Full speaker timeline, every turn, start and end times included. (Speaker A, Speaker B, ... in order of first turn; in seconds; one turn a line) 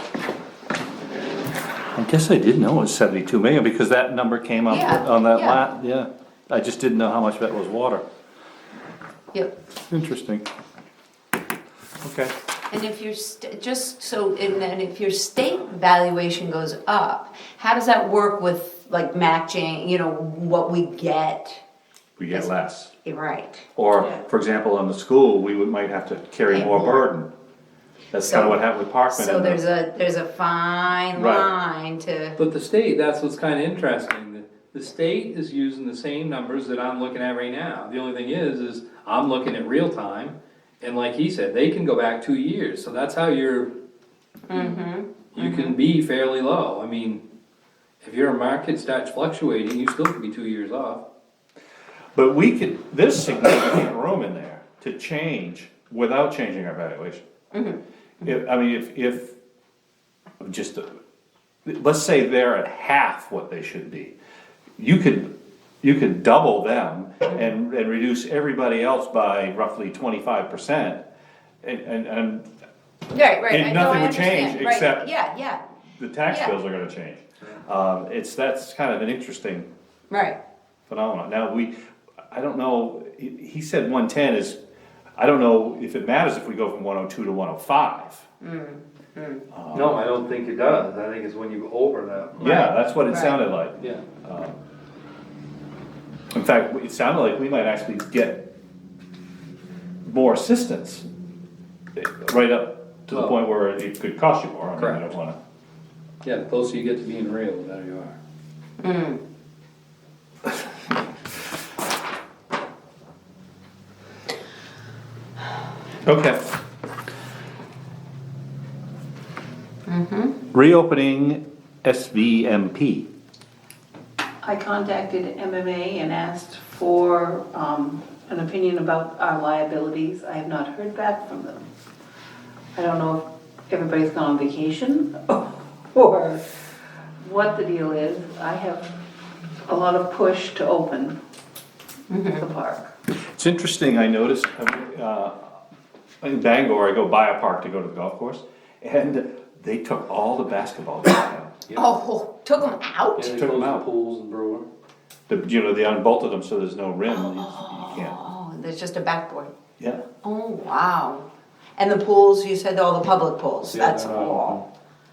Speaker A: 1.9-8.0
Speaker B: 4.7-5.6
Speaker A: 9.9-10.5
Speaker A: 12.0-12.3
Speaker B: 12.7-21.6
Speaker A: 22.2-22.9
Speaker B: 23.0-23.7
Speaker A: 23.8-27.3
Speaker B: 26.5-27.1
Speaker A: 28.1-29.6
Speaker B: 28.1-28.6
Speaker B: 29.1-32.4
Speaker A: 31.1-31.5
Speaker C: 32.4-43.7
Speaker B: 44.5-45.8
Speaker C: 45.3-47.2
Speaker C: 48.0-51.0
Speaker A: 52.1-57.2
Speaker B: 57.5-57.8
Speaker A: 58.2-59.3
Speaker A: 60.4-60.9
Speaker A: 61.6-64.1
Speaker A: 64.8-65.3
Speaker A: 65.8-71.0
Speaker A: 71.6-72.5
Speaker B: 73.1-75.6
Speaker A: 73.5-75.1
Speaker A: 76.0-79.7
Speaker B: 76.3-76.6
Speaker B: 80.1-80.4
Speaker A: 80.9-81.7
Speaker A: 82.3-84.6
Speaker A: 85.2-88.2
Speaker B: 88.4-89.5
Speaker A: 89.5-90.0
Speaker C: 89.7-92.5
Speaker A: 92.4-94.6
Speaker B: 92.4-93.4
Speaker C: 93.8-94.0
Speaker A: 96.3-98.4
Speaker A: 100.0-101.0
Speaker A: 102.0-105.4
Speaker C: 103.1-103.4
Speaker C: 104.8-105.0
Speaker C: 106.2-108.2
Speaker B: 108.8-109.2
Speaker A: 116.0-116.5
Speaker B: 119.9-120.3
Speaker A: 120.5-123.1
Speaker D: 124.4-131.7
Speaker D: 132.7-136.4
Speaker D: 137.2-138.9
Speaker D: 139.7-141.2
Speaker B: 142.1-142.4
Speaker D: 142.3-142.9
Speaker A: 143.3-145.5
Speaker A: 146.2-151.6
Speaker B: 151.7-153.3
Speaker C: 153.2-154.7
Speaker A: 153.2-153.8
Speaker A: 155.3-158.2
Speaker B: 157.1-159.5
Speaker B: 160.2-161.2
Speaker B: 161.8-164.6
Speaker C: 163.6-164.6